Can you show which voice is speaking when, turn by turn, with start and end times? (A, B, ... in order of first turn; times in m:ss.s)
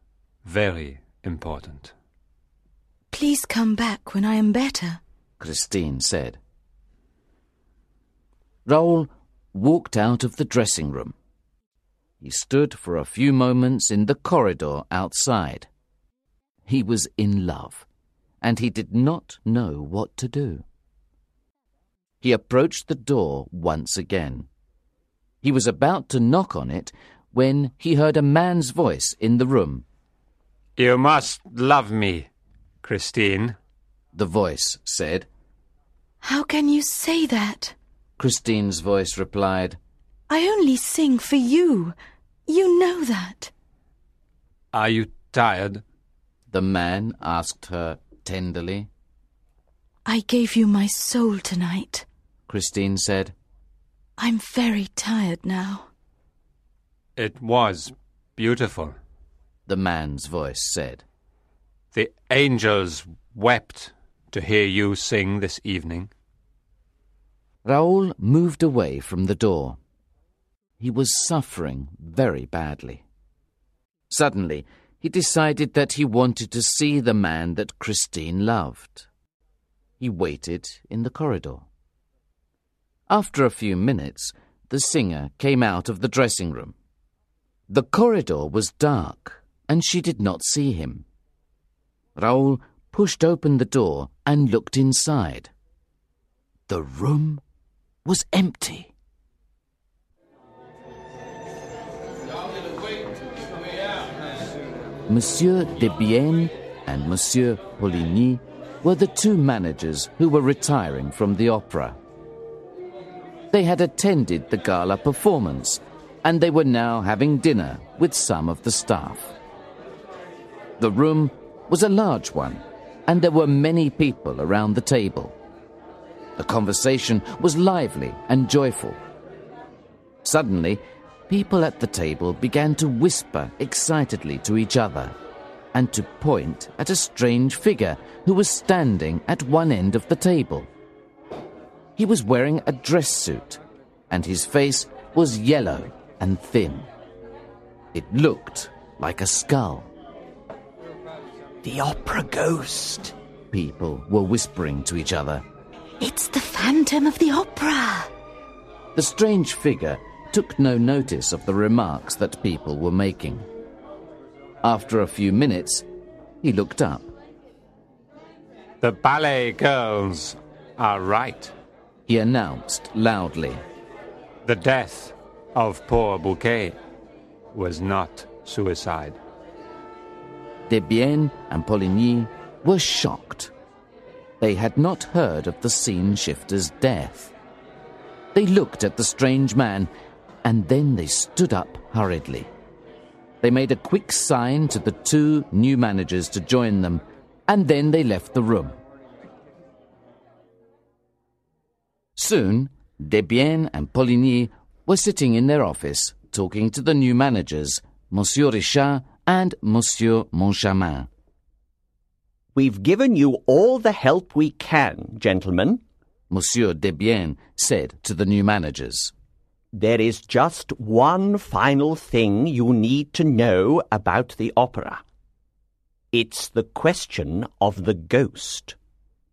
0:00.4-0:01.9 A
0:03.1-0:05.0 B
0:05.4-0:06.4 C
0:08.7-0:11.2 C
0:12.2-0:15.7 C
0:16.7-0:17.9 C
0:18.4-0:20.7 C
0:22.2-0:24.5 C
0:25.4-0:29.9 C
0:30.8-0:32.3 A
0:32.8-0:33.6 A
0:34.1-0:35.3 C
0:36.2-0:37.8 B
0:38.2-0:39.8 C
0:40.3-0:42.0 B
0:42.5-0:43.5 B
0:44.7-0:45.8 A
0:46.5-0:48.9 C
0:50.1-0:52.0 B
0:52.5-0:53.3 C
0:54.2-0:55.9 B
0:57.2-0:59.0 A
0:59.7-1:01.0 C
1:01.9-1:06.1 A
1:07.6-1:09.8 C
1:10.8-1:13.0 C
1:14.1-1:19.1 C
1:20.0-1:21.7 C
1:23.1-1:26.8 C
1:27.7-1:31.1 C
1:32.2-1:35.5 C
1:36.7-1:37.4 C
1:38.0-1:38.9 C
1:45.1-1:52.0 C
1:53.5-1:59.4 C
2:00.8-2:05.4 C
2:06.4-2:09.0 C
2:10.2-2:15.2 C
2:15.7-2:20.7 C
2:22.0-2:26.9 C
2:27.9-2:29.9 C
2:31.6-2:33.1 D
2:33.5-2:35.4 C
2:36.0-2:38.1 B
2:39.0-2:43.5 C
2:44.6-2:45.9 C
2:46.4-2:47.1 C
2:48.8-2:51.5 A
2:52.1-2:53.6 C
2:54.4-2:56.8 A
2:57.5-2:59.2 A
3:00.7-3:03.5 C
3:04.4-3:07.3 C
3:08.3-3:09.9 C
3:10.4-3:12.5 C
3:13.4-3:18.8 C
3:22.2-3:31.1 C
3:32.6-3:35.8 D
3:36.3-3:39.1 C
3:39.7-3:45.0 D
3:46.1-3:48.8 D